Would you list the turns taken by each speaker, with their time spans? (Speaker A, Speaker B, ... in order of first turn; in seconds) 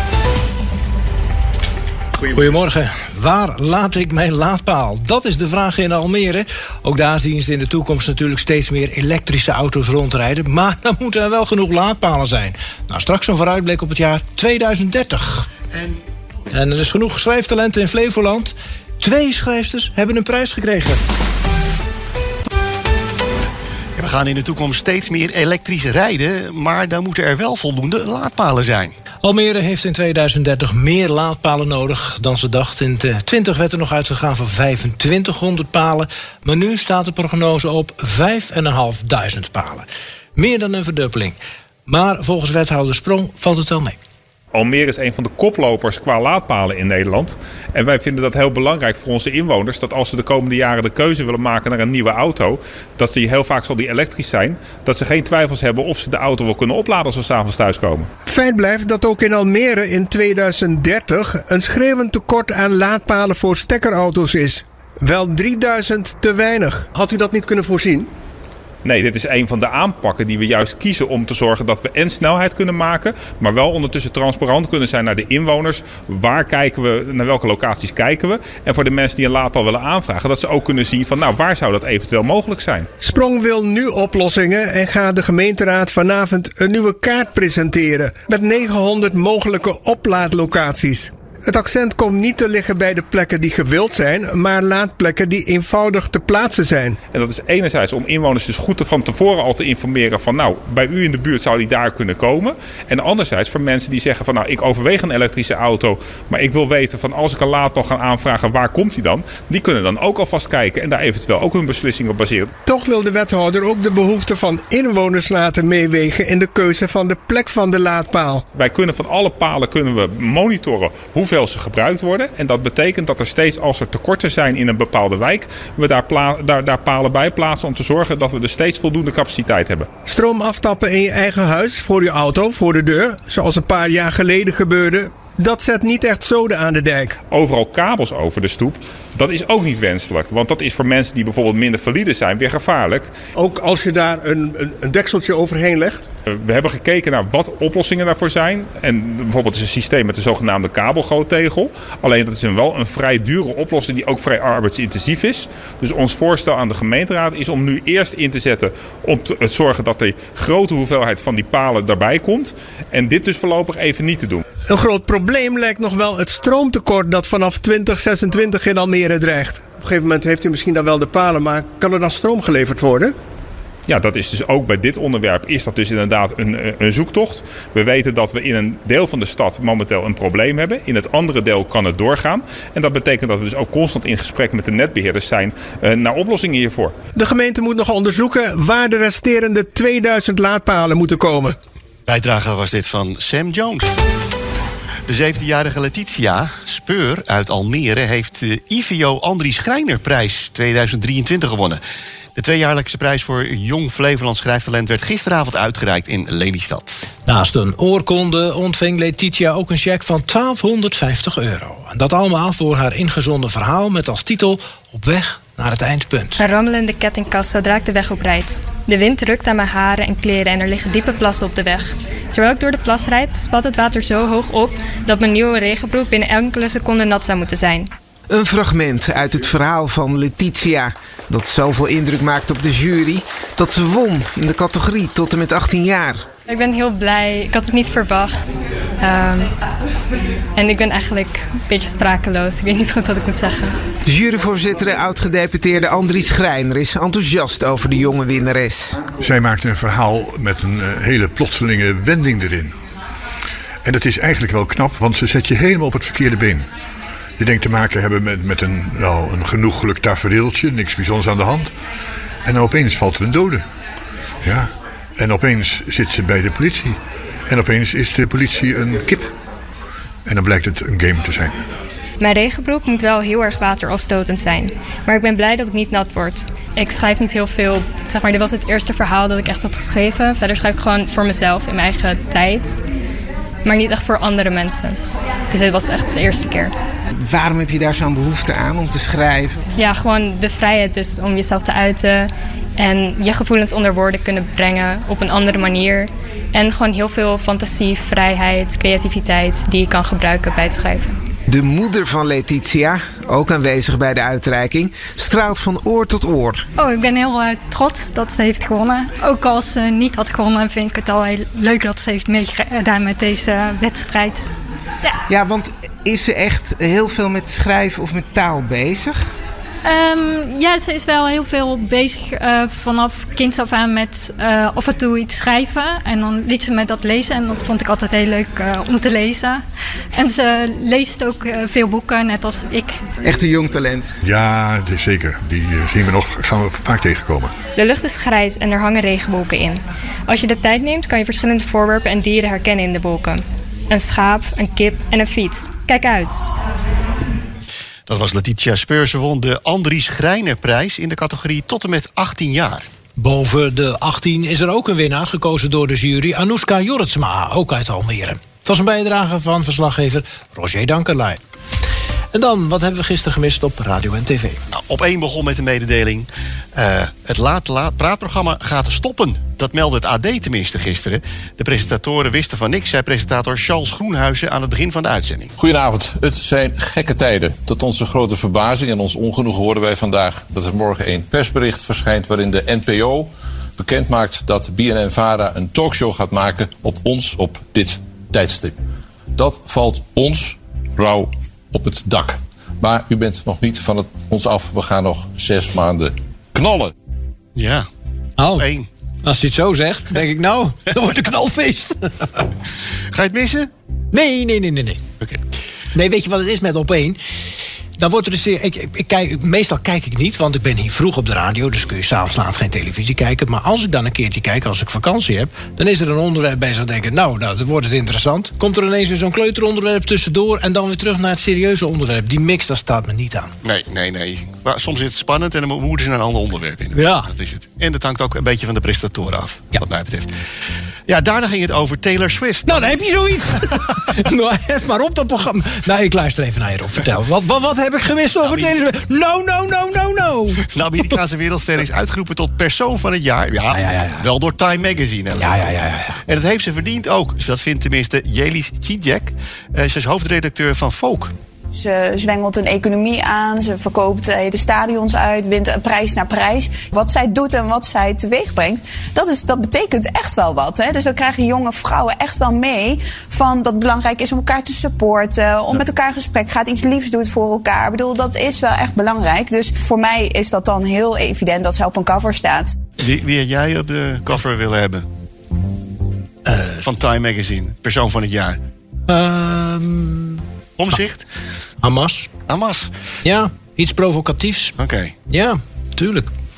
Speaker A: 2.2-15.5, 16.5-21.0, 29.2-44.0, 207.3-216.4, 353.2-361.4, 362.3-364.6, 398.4-398.7, 399.2-402.4, 404.1-405.0, 405.9-407.2, 408.0-423.5, 426.9-427.3, 432.7-441.1, 443.7-444.3, 445.4-446.2, 476.5-476.8, 479.1-480.4, 481.8-482.3, 483.2-484.8, 485.3-486.3
Speaker B: 15.7-16.0, 24.0-29.0, 192.1-193.9, 195.1-201.8, 202.4-207.0, 348.1-352.9, 364.7-375.5, 397.6-397.9, 398.6-398.9, 403.1-403.7, 423.6-430.3, 431.1-433.0, 438.4-438.8, 440.7-445.7, 446.3-451.3, 473.0-475.0, 476.8-478.6, 480.8-481.2, 482.5-482.9, 484.8-485.1
Speaker C: 44.5-58.1, 68.8-82.9, 97.1-112.5, 118.5-129.9, 137.3-143.1, 146.4-164.4, 173.9-186.9
Speaker D: 58.3-68.1, 83.0-97.0, 112.7-118.4, 130.1-137.2, 143.4-146.1, 164.7-173.1, 187.2-191.6
Speaker E: 216.4-227.9, 236.5-239.5, 240.6-243.7, 272.2-282.8, 283.6-284.9, 285.5-286.7, 289.8-301.1, 337.8-346.4
Speaker F: 228.3-236.2, 244.1-249.0, 287.2-289.6, 301.5-306.6, 315.3-319.2, 333.3-334.0
Speaker G: 249.2-252.7, 253.8-256.7, 257.4-261.7, 262.4-263.6, 264.4-267.0, 267.5-269.3, 270.3-271.6, 334.2-337.5
Speaker H: 306.8-314.5, 319.9-329.6, 330.1-333.0
Speaker I: 375.6-388.8, 389.4-396.9
Speaker J: 451.8-472.8